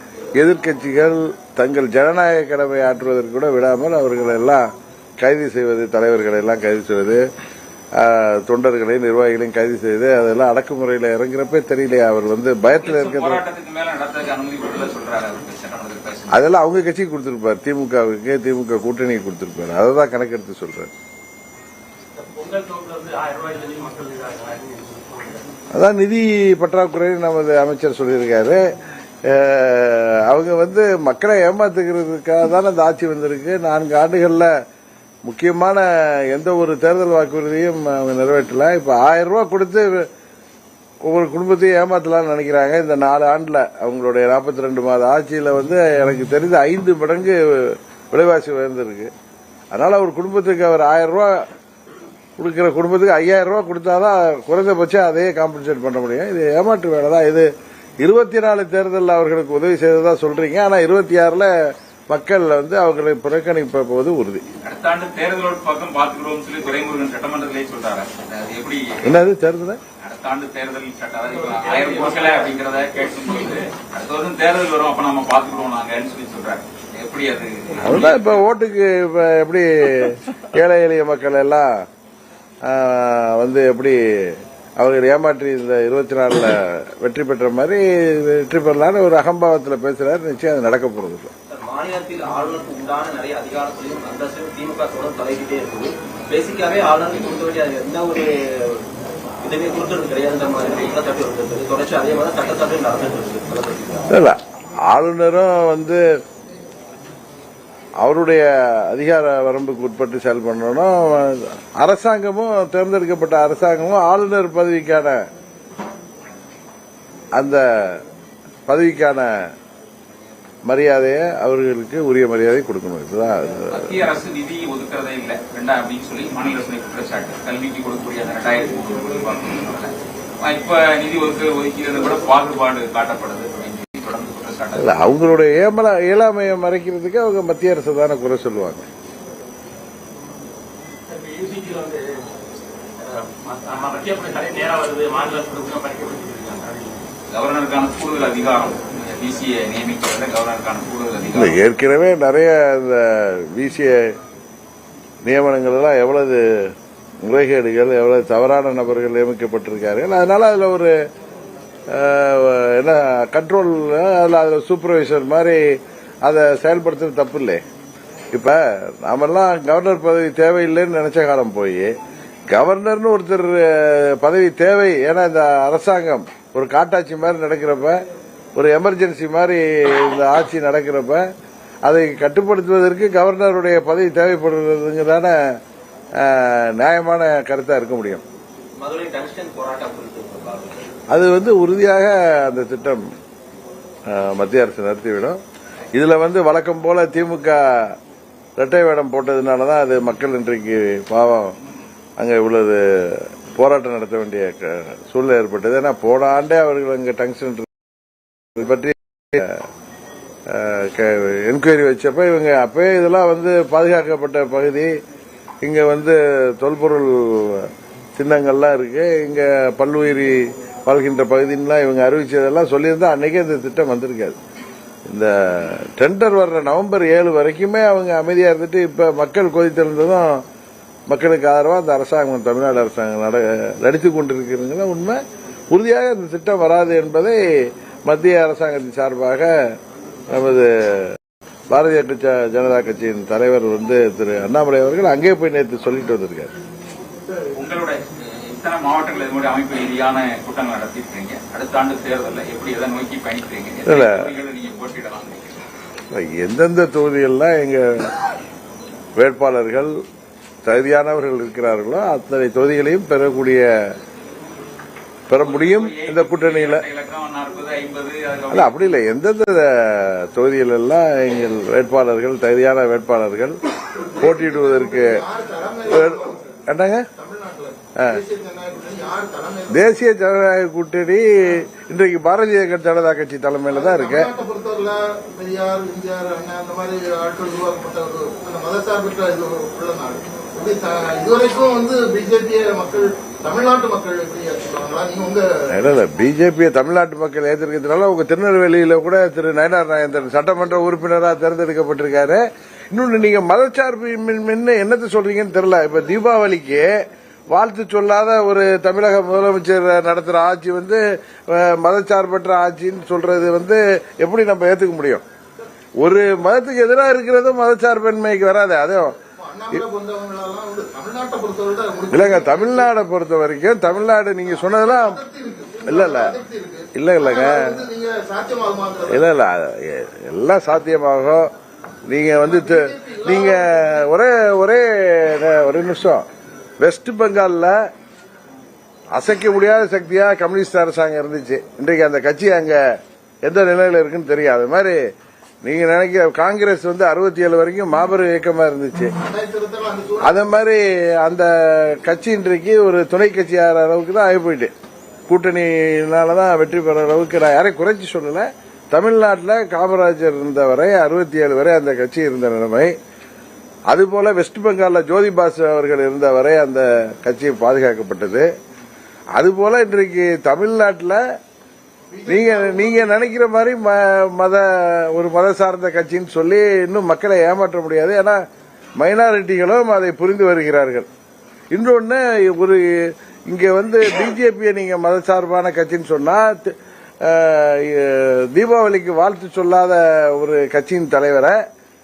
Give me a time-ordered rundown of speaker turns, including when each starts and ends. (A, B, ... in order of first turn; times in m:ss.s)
0:00.4-0:04.7 A
0:05.2-0:07.2 A
0:08.0-0:13.4 A
0:12.8-0:16.4 B
0:16.3-0:20.9 A
0:22.2-0:25.4 C
0:25.7-0:28.6 A
0:29.2-0:34.5 A
0:35.3-0:40.1 A
0:41.0-0:49.1 A
0:49.7-0:51.4 A
0:52.4-0:57.5 A
0:58.0-1:04.4 A
1:04.6-1:09.2 B
1:09.0-1:09.8 A
1:10.0-1:18.4 B
1:11.4-1:12.6 C
1:17.8-1:21.7 A
1:22.6-1:31.3 A
1:31.5-1:38.8 D
1:39.4-1:44.1 D
1:44.1-1:44.4 A
1:44.9-1:46.0 A
1:48.0-1:55.2 A
1:57.4-1:58.0 A
1:58.7-1:59.4 A
2:00.7-2:04.0 A
2:03.7-2:15.1 B
2:14.8-2:18.9 A
2:21.1-2:22.2 C
2:23.0-2:27.1 C
2:27.3-2:31.6 B
2:31.3-2:34.2 A
2:35.2-2:36.7 A
2:37.2-2:40.9 A
2:41.9-2:45.6 A
2:46.2-2:47.6 A
2:48.3-2:51.9 A
2:52.5-2:58.0 A
2:58.6-3:01.2 A
3:01.9-3:05.4 A
3:06.2-3:08.2 A
3:08.8-3:10.8 D
3:11.1-3:13.0 A
3:14.1-3:15.4 A
3:15.9-3:18.0 A
3:18.6-3:21.6 A
3:22.2-3:27.7 A
3:28.6-3:29.6 A
3:30.5-3:34.9 A
3:35.6-3:44.4 A
3:45.1-3:50.4 A
3:51.1-3:55.2 A
3:55.7-3:59.5 A
4:00.3-4:01.2 A
4:01.7-4:06.5 A
4:07.6-4:15.6 B
4:13.9-4:14.3 A
4:16.1-4:18.2 A
4:19.2-4:19.9 A
4:20.6-4:23.9 A
4:25.3-4:26.8 A
4:25.4-4:29.0 B
4:28.5-4:33.6 A
4:34.2-4:35.2 A
4:34.2-4:36.4 E
4:35.9-4:37.1 A
4:37.2-4:39.9 E
4:39.7-4:44.3 A
4:43.7-4:55.4 E
4:55.7-5:06.9 A
5:07.5-5:15.2 A
5:16.0-5:19.2 A
5:19.4-5:22.8 E
5:22.1-5:25.2 A
5:24.5-5:29.2 E
5:25.9-5:26.4 A
5:26.9-5:27.8 A
5:29.1-5:31.5 A
5:32.1-5:36.3 A
5:32.4-5:34.0 E
5:36.8-5:37.8 A
5:39.1-5:42.8 A
5:43.4-5:45.0 A
5:45.6-5:49.1 A
5:49.3-5:50.4 E
5:50.2-5:54.7 A
5:55.3-6:02.9 A
6:03.9-6:08.5 A
6:09.4-6:11.2 A
6:12.1-6:13.1 E
6:12.3-6:18.4 A
6:19.0-6:21.1 A
6:21.7-6:31.6 A